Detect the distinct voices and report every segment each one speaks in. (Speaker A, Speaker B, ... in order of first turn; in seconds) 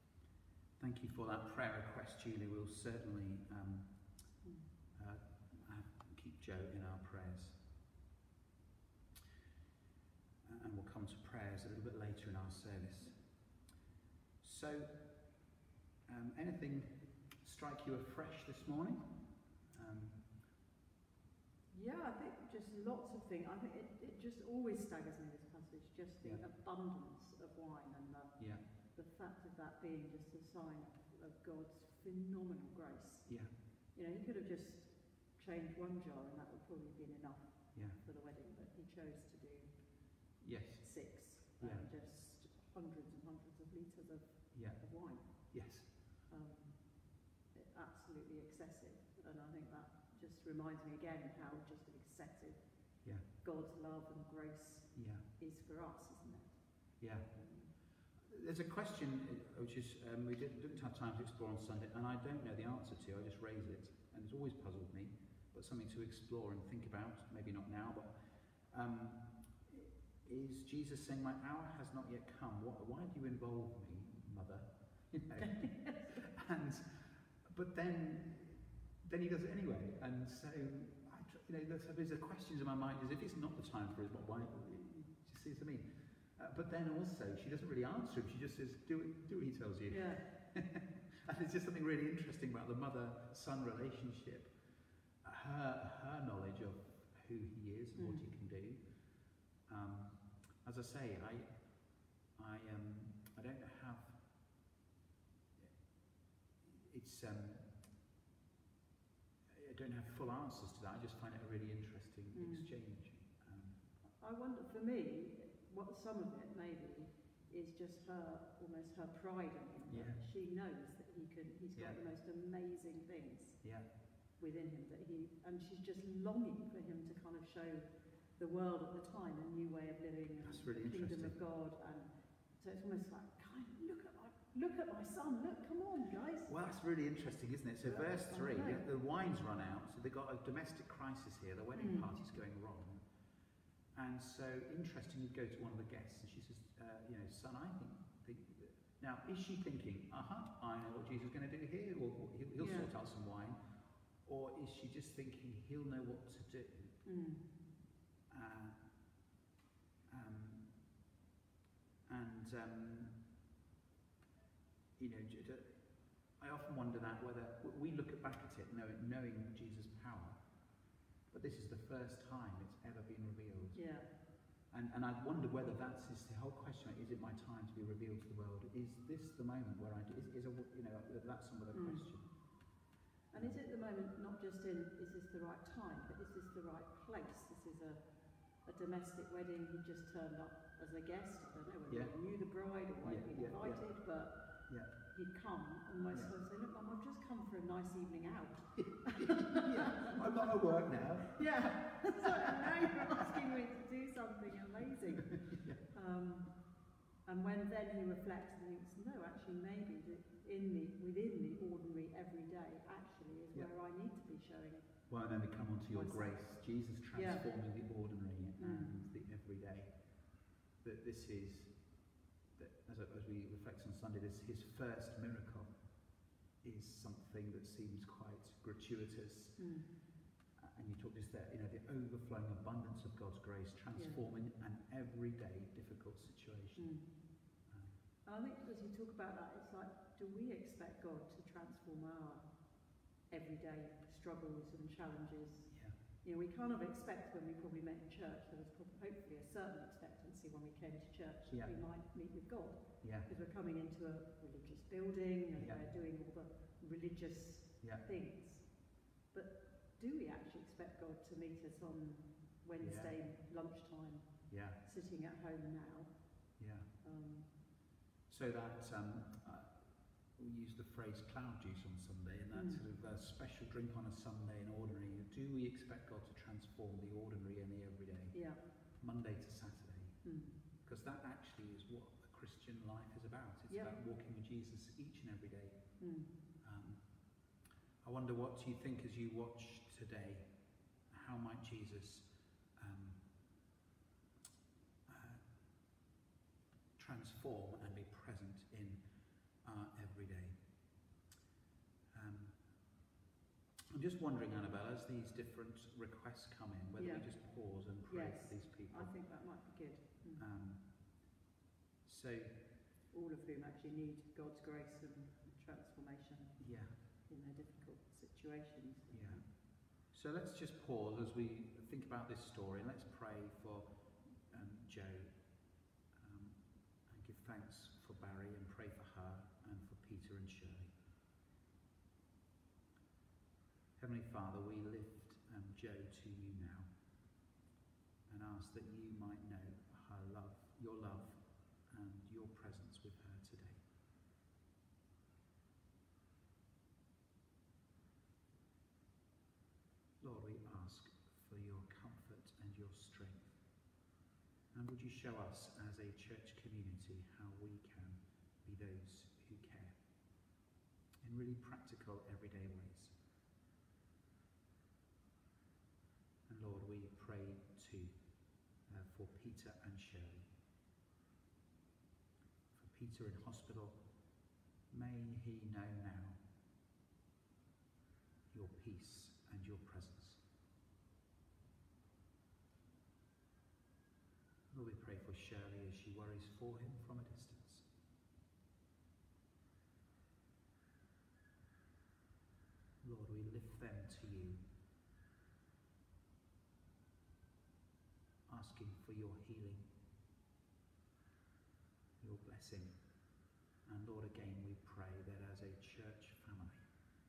Speaker A: 0.8-3.9, 5.0-7.5, 10.4-13.2, 14.4-14.9, 16.1-19.1, 19.7-20.2, 40.4-40.8, 41.6-41.9, 44.5-44.8, 45.5-45.9, 54.9-55.2, 57.0-57.3, 58.2-94.5, 95.2-98.8, 99.7-101.5, 102.3-104.2, 106.6-107.7, 109.5-113.8, 119.9-120.2, 123.6-123.9, 130.4-131.3, 136.5-143.0, 143.9-153.6, 154.2-156.9, 158.3-158.8, 160.1-160.7, 162.1-163.1, 165.0-165.8, 166.4-170.4, 171.3-173.8, 174.7-182.3, 193.0-193.8, 198.8-203.4, 205.2-205.8, 215.1-219.9, 220.8-221.7, 222.6-225.7, 226.6-229.6, 230.6-236.9, 237.7-237.9, 245.7-245.9, 253.0-253.3, 255.5-255.8, 262.8-263.1, 264.5-264.8, 266.6-266.9, 268.3-269.8, 270.4-278.3, 279.0-280.2, 280.8-285.8, 286.6-287.0, 288.0-290.5, 291.1-292.2, 292.8-293.2, 295.1-295.4, 297.0-299.0, 299.6-300.6, 302.1-302.5, 303.9-309.1, 310.4-310.8, 312.1-312.5, 316.6-316.9, 319.1-319.4, 320.1-323.8, 324.5-325.3, 326.1-330.9, 334.0-336.9, 338.3-343.8, 350.2-353.6, 354.7-359.9, 361.2-363.1, 366.5-368.1, 368.9-370.5, 372.7-374.0, 374.9-376.4, 378.5-380.4, 384.7-387.9, 393.0-394.6, 398.5-399.9, 402.2-402.9, 403.9-406.8
Speaker B: 21.7-28.4, 28.9-33.3, 33.9-39.7, 40.8-45.3, 46.3-46.8, 47.5-52.6, 53.4-56.6, 57.3-57.7, 75.4-76.2, 89.9-90.2, 97.9-98.3, 112.3-112.7, 114.2-123.6, 124.4-127.8, 128.4-136.5, 137.9-138.8, 141.7-142.1, 152.6-152.9, 157.0-157.4, 173.7-174.1, 181.7-182.0, 183.3-188.0, 188.7-194.3, 195.1-200.2, 201.2-206.5, 207.3-214.9, 215.9-216.3, 217.1-217.4, 218.6-218.9, 229.6-229.9, 236.8-237.0, 238.2-242.4, 243.3-245.7, 246.2-258.6, 259.3-264.2, 264.8-266.1, 267.0-267.5, 272.5-272.8, 278.3-278.6, 280.2-280.6, 286.0-286.3, 307.0-307.2, 308.1-310.4, 313.1-316.6, 317.3-319.4